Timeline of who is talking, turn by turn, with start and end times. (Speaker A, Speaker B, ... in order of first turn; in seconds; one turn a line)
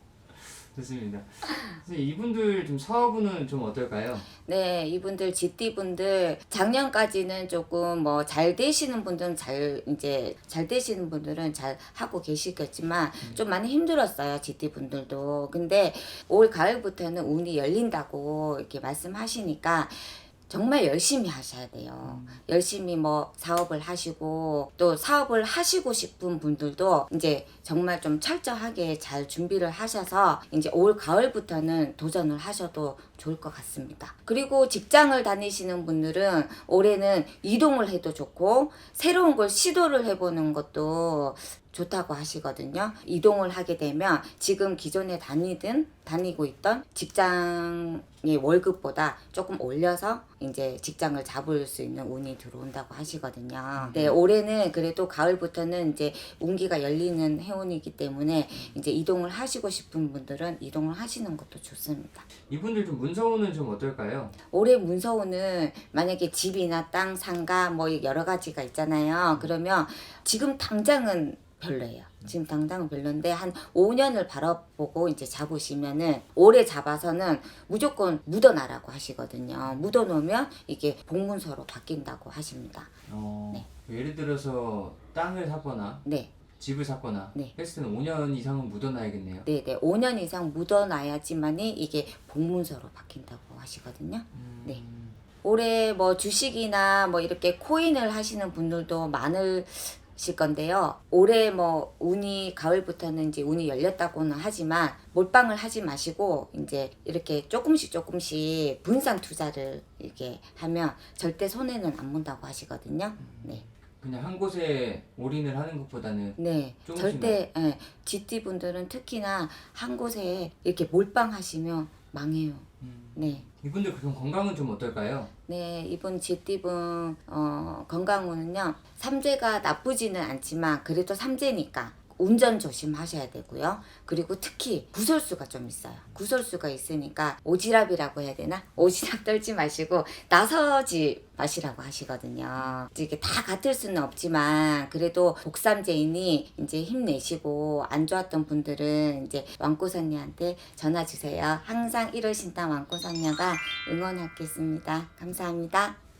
Speaker A: 0.3-4.3
Speaker B: 4.4-62.3
Speaker A: 22.0-22.4
Speaker A: 53.7-54.2
Speaker A: 58.5-58.8
Speaker A: 62.5-64.3
Speaker B: 64.5-82.9
Speaker A: 79.6-79.9
Speaker A: 83.1-86.0
Speaker B: 86.0-86.3
Speaker A: 86.5-89.5
Speaker B: 89.4-94.8
Speaker A: 94.3-95.2
Speaker B: 95.4-113.6
Speaker A: 113.2-117.4
Speaker B: 116.4-123.4
Speaker A: 122.8-125.3
Speaker B: 125.5-156.0